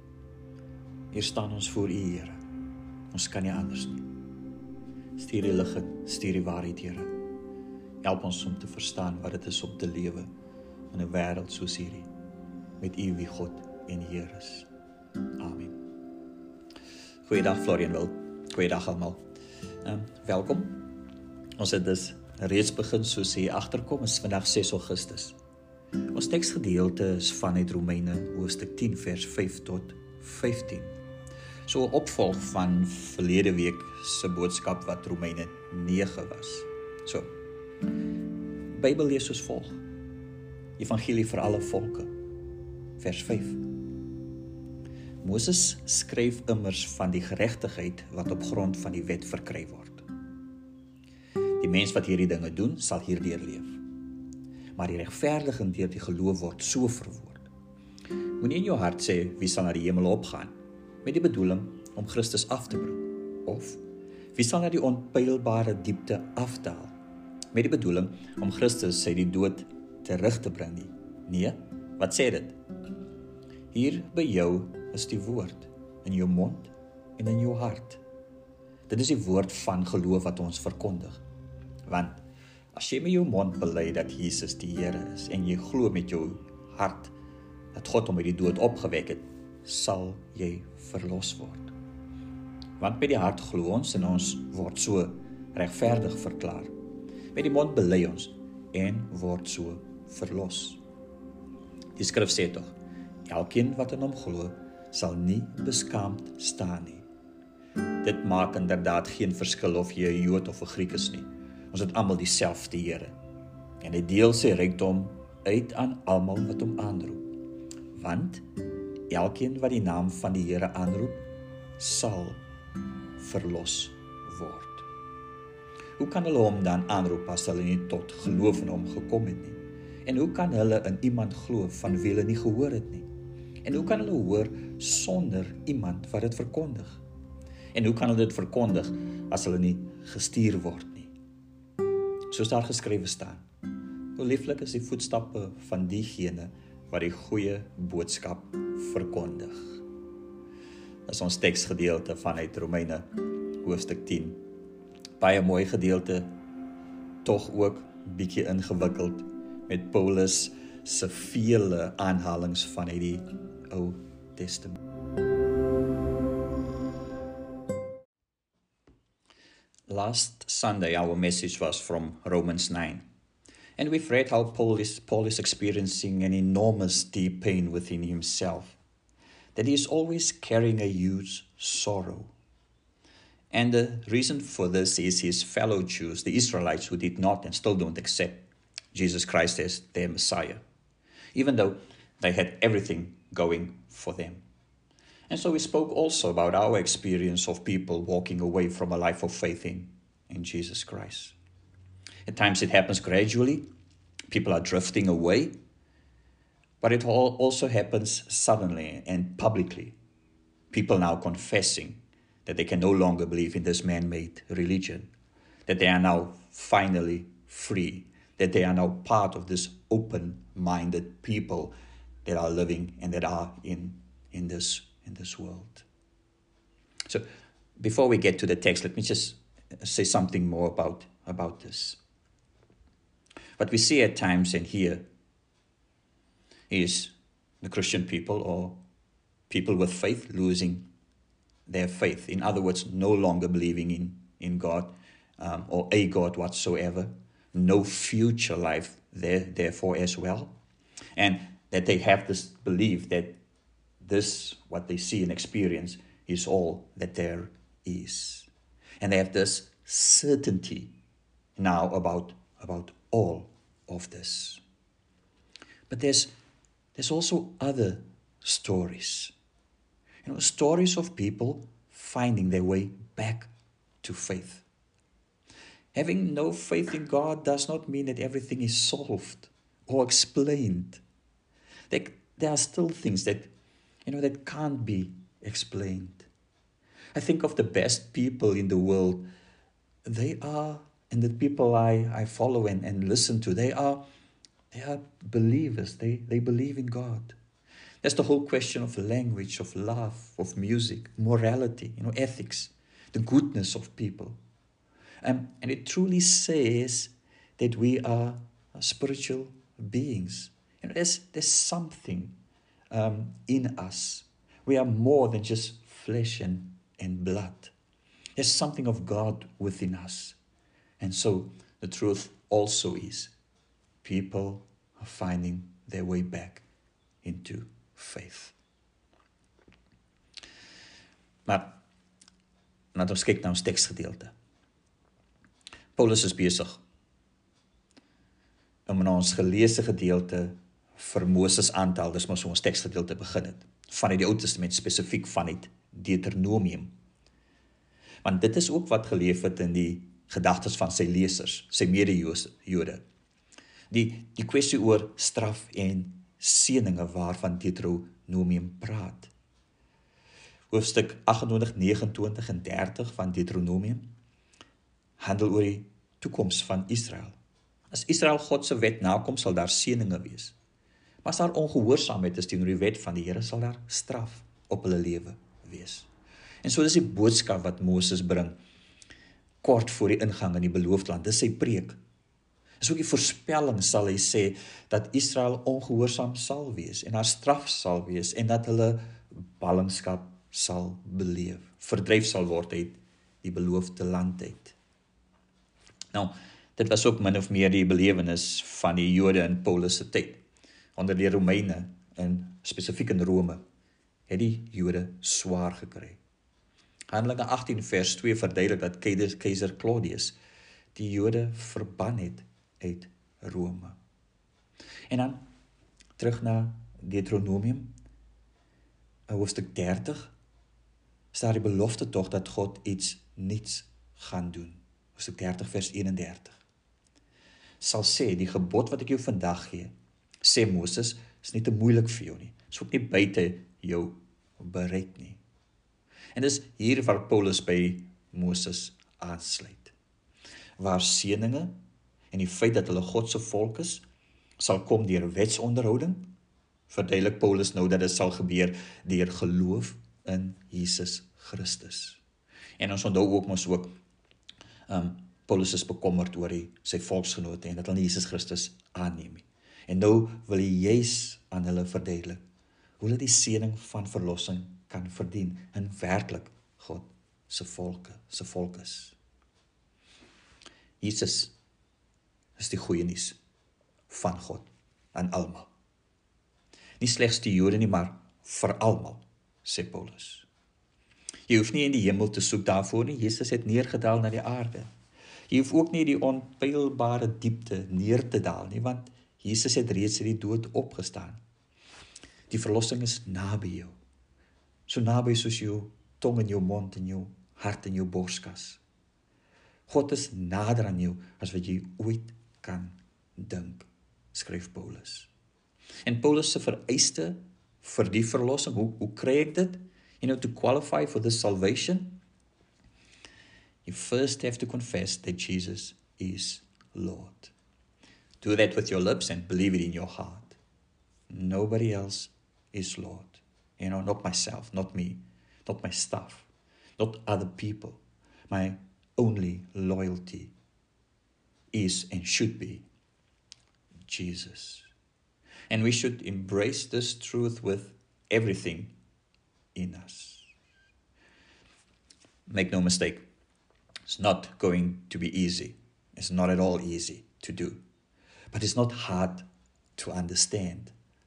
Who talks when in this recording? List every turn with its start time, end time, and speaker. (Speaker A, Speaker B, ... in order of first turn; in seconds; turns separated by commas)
Speaker A: 1.1-2.4, Speaker A: 3.1-4.1, Speaker A: 5.2-7.1, Speaker A: 8.0-10.3, Speaker A: 10.9-12.1, Speaker A: 12.8-14.7, Speaker A: 15.4-15.8, Speaker A: 17.2-19.2, Speaker A: 19.8-20.9, Speaker A: 21.6-25.4, Speaker A: 26.1-30.9, Speaker A: 31.7-37.3, Speaker A: 38.7-39.8, Speaker A: 40.8-42.1, Speaker A: 43.0-43.6, Speaker A: 45.2-50.0, Speaker A: 51.6-53.8, Speaker A: 54.8-57.5, Speaker A: 58.4-63.8, Speaker A: 64.3-67.0, Speaker A: 67.5-72.6, Speaker A: 73.7-78.0, Speaker A: 78.9-81.2, Speaker A: 81.9-82.2, Speaker A: 82.7-87.1, Speaker A: 87.7-91.7, Speaker A: 92.8-96.7, Speaker A: 97.3-100.8, Speaker A: 102.0-102.8, Speaker A: 103.3-107.0, Speaker A: 108.0-113.1, Speaker A: 113.8-117.2, Speaker A: 117.9-118.5, Speaker A: 119.1-121.2, Speaker A: 121.8-122.4, Speaker A: 123.2-124.9, Speaker A: 126.0-133.1, Speaker A: 133.7-137.0, Speaker A: 137.7-141.1, Speaker A: 142.3-143.4, Speaker A: 144.2-149.8, Speaker A: 151.1-153.1, Speaker A: 153.6-154.4, Speaker A: 155.2-156.3, Speaker A: 157.2-164.8, Speaker A: 169.9-173.0, Speaker A: 173.8-178.8, Speaker A: 179.6-182.3, Speaker A: 183.5-190.6, Speaker A: 191.3-194.4, Speaker A: 195.3-201.4, Speaker A: 202.3-203.7, Speaker A: 204.3-205.6, Speaker A: 206.8-210.0, Speaker A: 210.7-215.1, Speaker A: 215.7-221.7, Speaker A: 222.2-225.9, Speaker A: 227.8-232.0, Speaker A: 233.6-235.1, Speaker A: 236.7-238.8, Speaker A: 239.5-240.9, Speaker A: 241.7-250.6, Speaker A: 251.2-253.4, Speaker A: 254.0-258.5, Speaker A: 259.0-260.9, Speaker A: 261.6-264.6, Speaker A: 265.9-266.3, Speaker A: 266.9-269.3, Speaker A: 270.2-273.5, Speaker A: 274.0-274.7, Speaker A: 275.9-281.0, Speaker A: 281.9-283.5, Speaker A: 284.1-286.3, Speaker A: 287.1-289.2, Speaker A: 290.1-294.0, Speaker A: 294.7-297.4, Speaker A: 298.0-304.4, Speaker A: 305.2-312.4, Speaker A: 312.9-317.7, Speaker A: 318.4-320.4, Speaker A: 321.0-323.3, Speaker A: 324.0-326.6, Speaker A: 327.2-328.5, Speaker A: 331.5-331.8, Speaker A: 332.9-334.3, Speaker A: 336.0-336.8, Speaker A: 338.9-346.9, Speaker A: 348.2-353.0, Speaker A: 353.9-359.3, Speaker A: 360.7-364.1, Speaker A: 365.2-367.4, Speaker A: 367.9-370.6, Speaker A: 371.2-376.1, Speaker A: 376.6-378.6, Speaker A: 379.6-382.0, Speaker A: 382.8-389.0, Speaker A: 389.6-394.8, Speaker A: 396.1-400.4, Speaker A: 401.0-403.6, Speaker A: 404.3-406.2, Speaker A: 407.1-410.4, Speaker A: 410.9-414.0, Speaker A: 415.1-415.4, Speaker A: 416.2-417.9, Speaker A: 419.3-420.3, Speaker A: 421.3-426.6, Speaker A: 427.8-429.9, Speaker A: 430.4-435.4, Speaker A: 436.4-439.9, Speaker A: 440.8-441.8, Speaker A: 442.3-444.0, Speaker A: 444.6-446.3, Speaker A: 446.9-452.2, Speaker A: 452.8-453.9, Speaker A: 454.9-462.4, Speaker A: 463.0-469.2, Speaker A: 471.0-471.5, Speaker A: 472.6-473.4, Speaker A: 474.1-475.7, Speaker A: 477.0-480.5, Speaker A: 481.5-484.9, Speaker A: 485.5-491.4, Speaker A: 492.5-494.0, Speaker A: 494.9-498.8, Speaker A: 499.9-505.3, Speaker A: 506.1-512.2, Speaker A: 513.9-517.5, Speaker A: 518.4-520.6, Speaker A: 521.3-530.5, Speaker A: 531.7-532.9, Speaker A: 534.1-534.9, Speaker A: 535.7-539.0, Speaker A: 539.8-540.5, Speaker A: 542.5-543.3, Speaker A: 544.1-547.8, Speaker A: 548.5-549.5, Speaker A: 550.0-550.9